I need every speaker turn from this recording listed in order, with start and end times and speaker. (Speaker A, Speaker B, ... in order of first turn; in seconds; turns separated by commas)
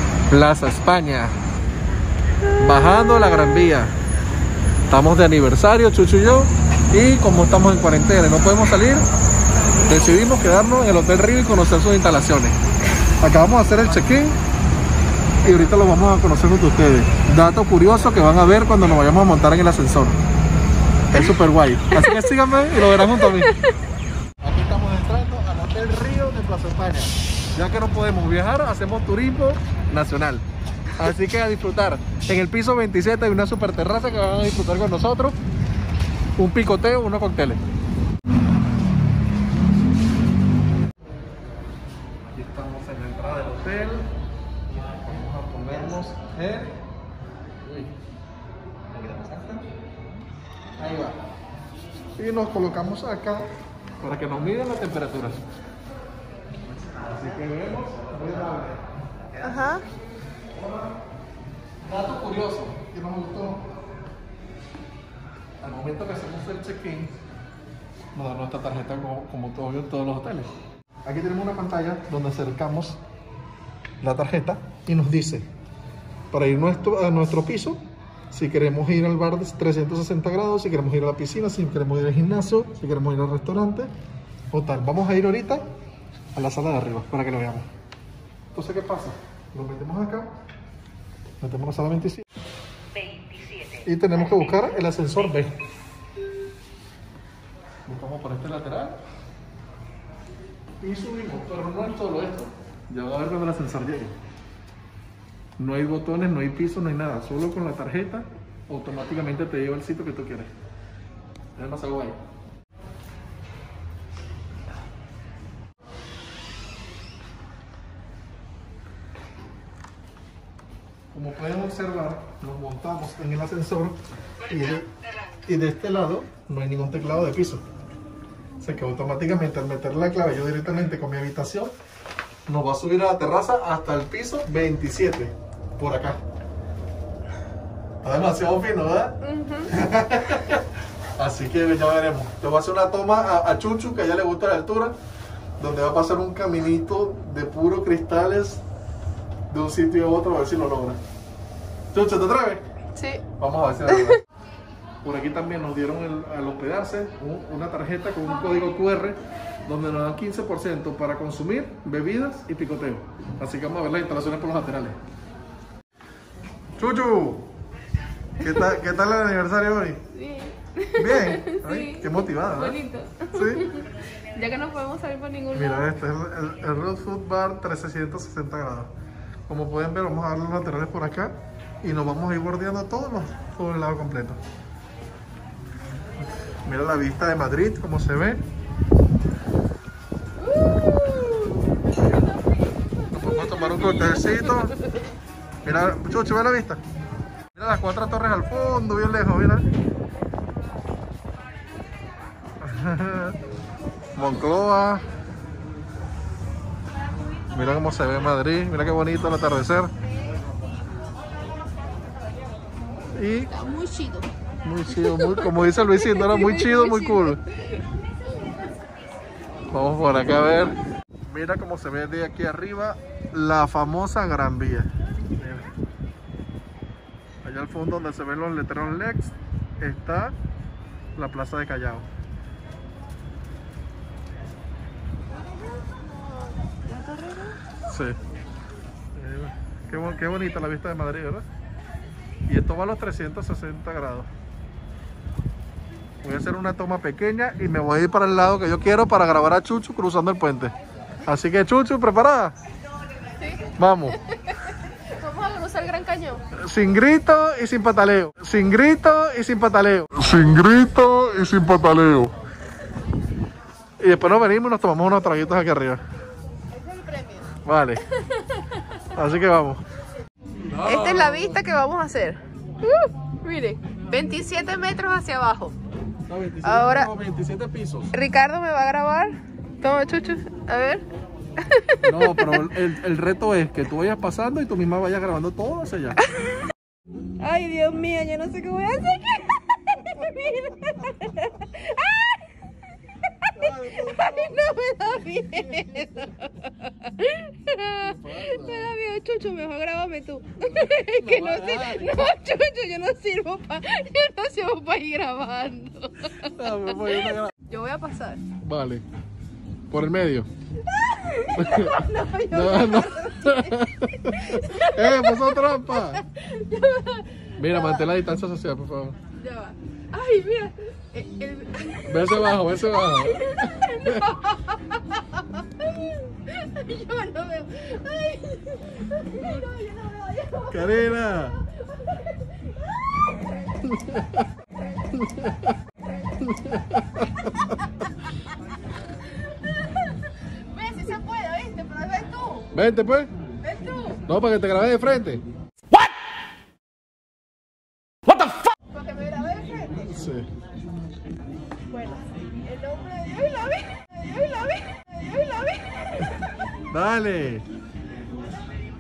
Speaker A: 0.3-1.4, Speaker B: 2.4-3.8, Speaker A: 2.6-3.9, Speaker A: 4.9-9.1, Speaker A: 9.8-12.6, Speaker A: 13.2-14.4, Speaker A: 15.4-20.2, Speaker B: 21.1-21.4, Speaker A: 21.1-23.5, Speaker B: 21.9-23.7, Speaker A: 24.4-35.4, Speaker A: 36.4-37.6, Speaker A: 42.3-44.1, Speaker A: 44.9-46.8, Speaker A: 47.6-47.9, Speaker A: 48.9-49.7, Speaker A: 50.8-51.2, Speaker A: 52.2-55.5, Speaker A: 57.0-58.9, Speaker B: 59.4-59.9, Speaker A: 61.8-63.7, Speaker A: 65.6-67.2, Speaker A: 68.1-70.5, Speaker A: 71.0-73.0, Speaker A: 74.0-75.5, Speaker A: 76.3-77.8, Speaker A: 78.3-83.9, Speaker A: 84.5-85.7, Speaker A: 86.3-87.7, Speaker A: 88.5-90.3, Speaker A: 91.4-92.2, Speaker A: 93.8-95.6, Speaker A: 97.9-99.0, Speaker A: 100.8-104.2, Speaker A: 105.6-110.5, Speaker A: 111.6-112.2, Speaker A: 121.1-124.0, Speaker A: 124.5-124.9, Speaker A: 125.5-127.6, Speaker A: 128.6-131.8, Speaker A: 132.5-136.2, Speaker A: 138.0-145.0, Speaker B: 139.2-139.7, Speaker A: 145.6-148.6, Speaker A: 149.5-151.0, Speaker A: 151.9-152.6, Speaker B: 152.9-153.2, Speaker A: 153.4-154.2, Speaker B: 153.9-154.2, Speaker A: 155.0-165.0, Speaker A: 166.8-167.5, Speaker A: 168.4-170.0, Speaker B: 168.4-168.7, Speaker B: 170.1-175.9, Speaker A: 171.0-172.8, Speaker A: 173.3-173.7, Speaker A: 175.5-178.9, Speaker A: 179.5-184.4, Speaker A: 186.7-188.4, Speaker B: 190.4-191.8, Speaker A: 191.9-192.3, Speaker A: 193.1-194.8, Speaker B: 193.3-194.7, Speaker A: 195.7-196.8, Speaker A: 197.6-199.7, Speaker A: 202.6-203.4, Speaker A: 204.2-205.0, Speaker A: 207.5-209.9, Speaker A: 213.2-213.5, Speaker B: 213.5-214.3, Speaker A: 214.6-217.4, Speaker B: 214.9-217.8, Speaker A: 219.7-220.8, Speaker A: 221.3-225.7, Speaker A: 227.4-230.4, Speaker A: 231.2-232.1, Speaker B: 235.8-237.6, Speaker A: 237.9-238.2, Speaker A: 239.1-241.5, Speaker A: 242.5-244.3, Speaker A: 246.2-250.7, Speaker A: 251.3-252.6, Speaker B: 253.4-256.4, Speaker A: 253.8-254.2, Speaker A: 256.6-262.3, Speaker A: 264.0-266.0, Speaker B: 266.8-267.5, Speaker A: 267.6-268.0, Speaker A: 269.1-269.8, Speaker A: 270.7-271.6, Speaker B: 270.8-275.8, Speaker A: 276.3-278.1, Speaker B: 276.6-277.1, Speaker B: 278.1-281.0, Speaker B: 281.6-282.8, Speaker A: 282.0-286.2, Speaker B: 286.3-286.6, Speaker B: 287.4-292.5, Speaker B: 293.3-308.4, Speaker A: 293.5-294.6, Speaker A: 298.0-298.9, Speaker A: 300.8-302.3, Speaker A: 306.4-307.5, Speaker A: 308.6-309.0, Speaker A: 309.9-310.5, Speaker B: 310.9-318.1, Speaker A: 311.5-316.2, Speaker A: 317.6-319.2, Speaker B: 319.4-332.8, Speaker A: 322.1-324.3, Speaker A: 330.7-331.6, Speaker A: 333.8-334.5, Speaker A: 335.1-335.8, Speaker A: 336.4-337.8, Speaker B: 339.5-342.7, Speaker A: 342.7-343.3, Speaker B: 343.6-344.2, Speaker A: 344.3-345.4, Speaker B: 348.9-350.1, Speaker A: 350.0-350.5, Speaker B: 351.9-356.5, Speaker A: 356.9-357.7